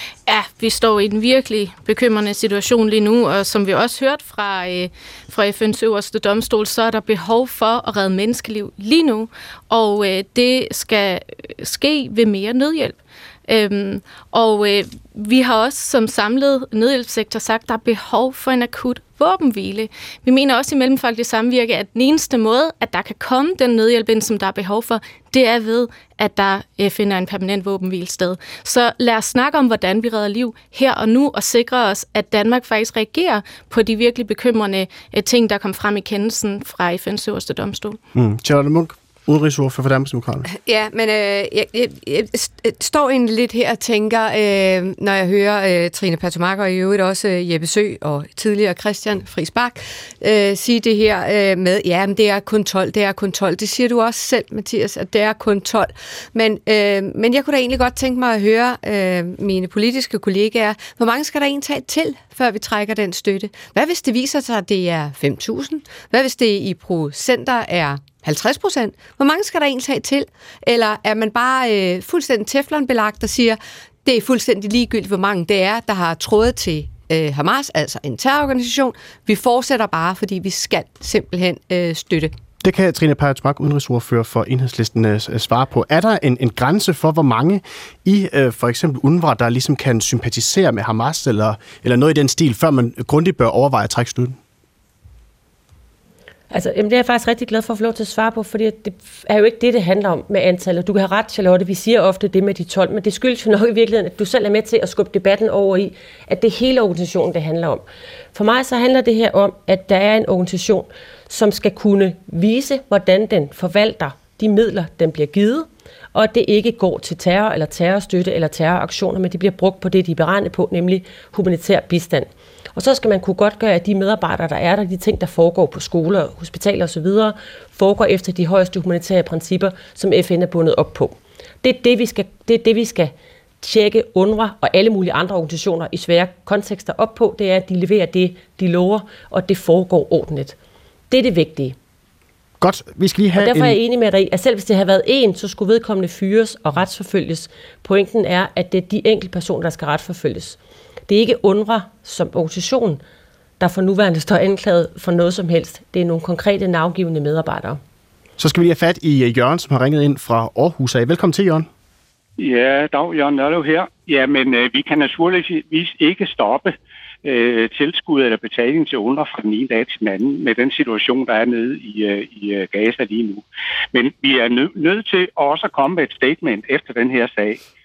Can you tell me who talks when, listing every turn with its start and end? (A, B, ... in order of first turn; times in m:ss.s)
0:00.3-0:38.0 A
0:38.1-0:40.4 B
0:40.5-1:22.3 C
1:22.6-1:34.4 B
1:36.5-1:47.8 D
1:48.3-1:55.6 D
1:56.1-2:20.6 D
2:21.1-2:21.7 D
2:22.6-2:23.8 B
2:23.4-2:30.6 D
2:31.1-2:33.0 D
2:33.6-2:37.7 D
2:38.4-2:41.7 B
2:42.4-2:57.6 E